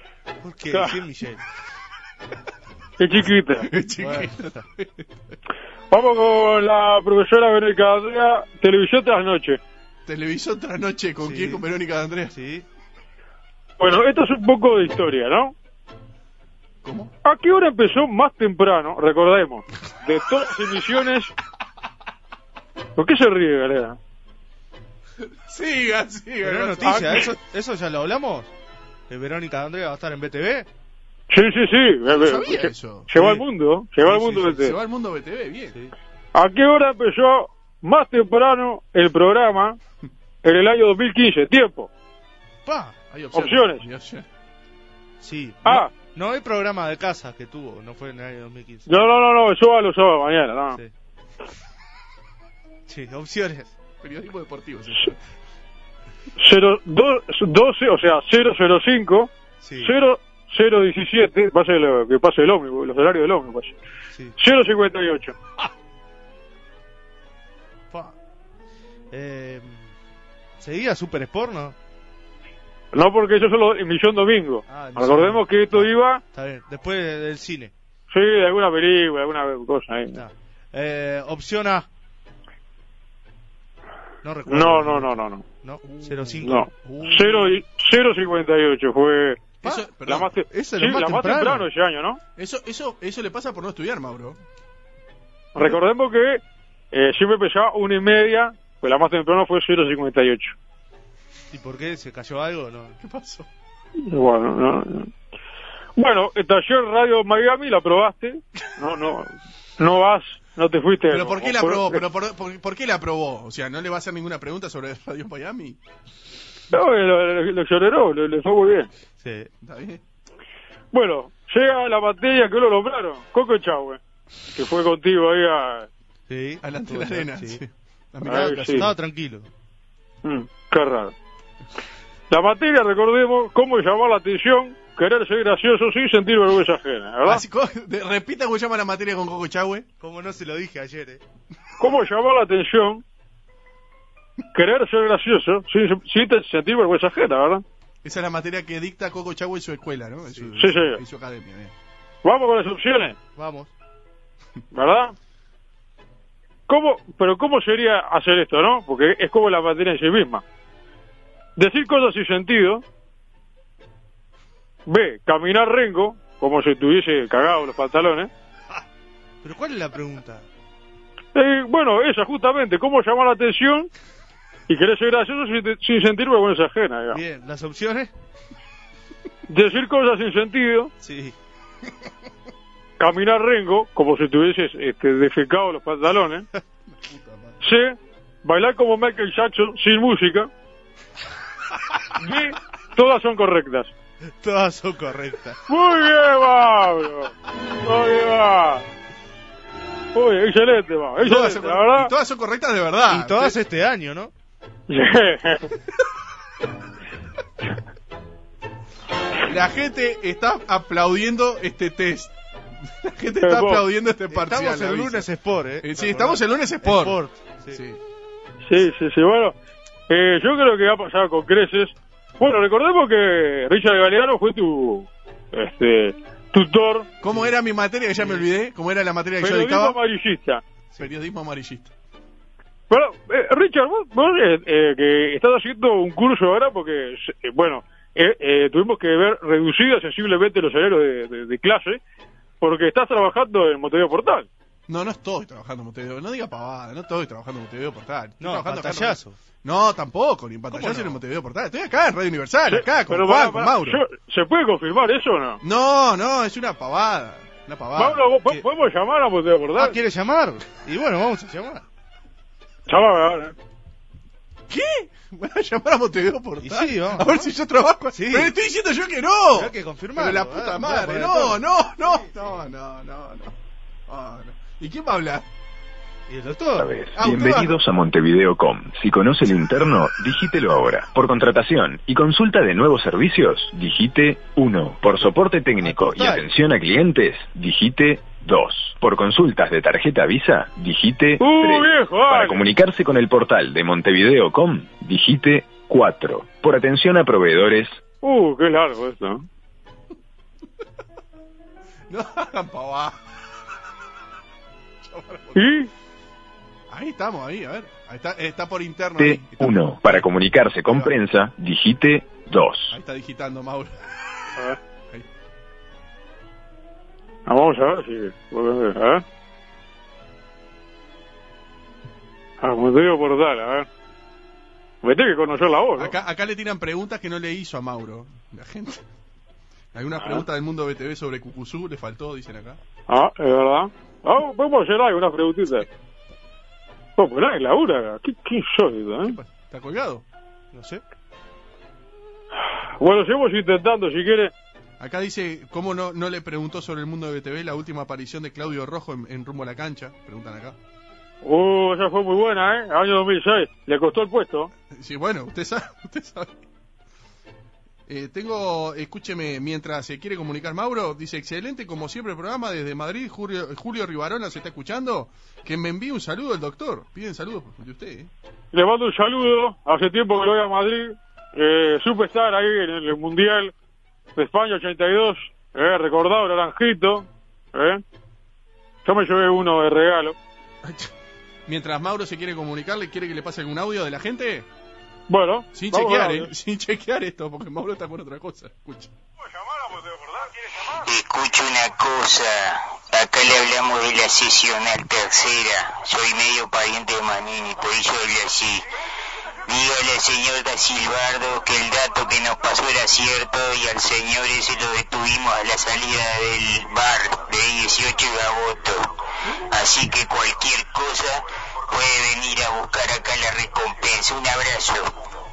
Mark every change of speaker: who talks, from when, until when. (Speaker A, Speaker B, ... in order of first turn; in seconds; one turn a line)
Speaker A: 0.4-1.4
Speaker B: 0.7-1.0
Speaker B: 3.0-3.7
Speaker C: 3.6-5.4
Speaker A: 4.0-4.6
Speaker B: 5.9-9.6
Speaker C: 10.1-12.3
Speaker A: 11.2-11.6
Speaker A: 12.3-12.7
Speaker B: 13.8-15.5
Speaker C: 16.8-17.1
Speaker B: 17.2-21.3
Speaker B: 23.0-24.0
Speaker C: 25.2-27.4
Speaker A: 26.4-28.5
Speaker A: 29.1-30.7
Speaker B: 31.3-34.8
Speaker C: 32.1-33.5
Speaker C: 34.0-35.8
Speaker B: 36.3-39.8
Speaker B: 40.4-41.9
Speaker A: 42.6-43.0
Speaker C: 43.1-44.3
Speaker B: 43.3-43.9
Speaker A: 45.2-48.9
Speaker B: 45.6-45.9
Speaker B: 48.9-50.8
Speaker A: 52.9-53.7
Speaker C: 54.0-55.2
Speaker B: 56.4-59.3
Speaker A: 59.6-59.9
Speaker B: 59.8-63.8
Speaker B: 64.4-65.4
Speaker A: 67.9-68.2
Speaker A: 69.1-69.9
Speaker A: 70.6-71.8
Speaker B: 72.9-76.2
Speaker A: 74.7-77.7
Speaker B: 78.1-80.2
Speaker A: 80.1-81.9
Speaker A: 84.2-86.7
Speaker B: 84.5-85.4
Speaker C: 85.8-87.5
Speaker B: 86.4-92.2
Speaker C: 89.6-90.3
Speaker A: 90.5-91.7
Speaker C: 92.4-94.4
Speaker B: 95.5-100.6
Speaker A: 101.5-103.0
Speaker C: 103.0-103.5
Speaker B: 104.0-105.1
Speaker B: 106.0-112.0
Speaker C: 111.1-115.8
Speaker B: 116.7-118.9
Speaker A: 119.2-119.5
Speaker C: 119.6-120.0
Speaker B: 120.9-124.0
Speaker B: 124.5-125.9
Speaker A: 126.3-127.6
Speaker C: 126.6-128.9
Speaker B: 128.2-128.9
Speaker A: 128.3-129.5
Speaker B: 130.2-131.1
Speaker B: 132.3-137.4
Speaker C: 137.2-139.9
Speaker A: 140.0-141.2
Speaker B: 141.8-143.0
Speaker B: 144.5-147.6
Speaker C: 148.0-151.7
Speaker B: 150.6-151.0
Speaker B: 152.2-153.2
Speaker A: 153.4-153.7
Speaker B: 154.7-155.2
Speaker B: 156.7-160.4
Speaker B: 161.6-162.8
Speaker B: 164.9-168.3
Speaker A: 169.4-170.5
Speaker B: 171.3-173.9
Speaker B: 174.7-177.2
Speaker A: 177.1-178.1
Speaker B: 179.5-180.9
Speaker A: 181.0-181.3
Speaker B: 183.0-186.5
Speaker C: 186.9-187.6
Speaker B: 187.6-190.5
Speaker B: 192.1-193.9
Speaker A: 194.4-195.6
Speaker B: 195.7-198.8
Speaker B: 200.1-202.1
Speaker C: 201.2-203.6
Speaker A: 203.1-204.3
Speaker B: 204.9-205.7
Speaker C: 209.4-215.3
Speaker B: 213.4-213.9
Speaker A: 214.3-217.8
Speaker C: 215.8-217.2
Speaker C: 217.7-218.0
Speaker B: 218.7-219.6
Speaker B: 220.1-227.1
Speaker C: 227.2-230.0
Speaker B: 229.4-230.6
Speaker C: 231.0-231.9
Speaker B: 232.9-242.0
Speaker B: 242.6-244.5
Speaker C: 244.9-254.0
Speaker A: 248.4-249.4
Speaker A: 250.7-251.2
Speaker B: 252.7-255.6
Speaker C: 255.6-258.2
Speaker B: 258.0-260.0
Speaker A: 259.8-261.9
Speaker B: 262.9-263.5
Speaker C: 264.7-273.6
Speaker A: 266.6-267.5
Speaker A: 268.1-268.5
Speaker A: 269.5-271.6
Speaker C: 274.1-275.5
Speaker A: 276.3-276.9
Speaker D: 276.8-298.0
Speaker C: 277.1-277.8
Speaker A: 285.8-286.5
Speaker B: 291.4-292.6
Speaker B: 298.2-299.5
Speaker C: 302.1-303.2
Speaker C: 305.0-305.7
Speaker B: 305.6-305.9
Speaker C: 306.9-310.3
Speaker D: 309.2-312.9
Speaker C: 310.9-311.1
Speaker C: 312.9-314.5
Speaker B: 317.5-319.2
Speaker B: 322.6-323.9
Speaker B: 325.0-326.2
Speaker C: 326.0-329.0
Speaker C: 329.9-332.8
Speaker B: 330.2-330.4
Speaker B: 333.1-335.9
Speaker B: 337.2-339.4
Speaker C: 339.2-340.2
Speaker A: 340.7-341.0
Speaker B: 342.6-344.5
Speaker C: 345.0-350.8
Speaker B: 351.4-354.7
Speaker C: 354.9-356.6
Speaker C: 358.1-368.3
Speaker B: 368.7-373.7
Speaker B: 374.4-378.0
Speaker B: 379.1-380.4
Speaker C: 380.8-381.1
Speaker C: 381.7-384.7
Speaker B: 385.3-386.5
Speaker C: 385.7-389.1
Speaker E: 391.0-398.9
Speaker E: 399.7-409.1
Speaker E: 409.7-415.1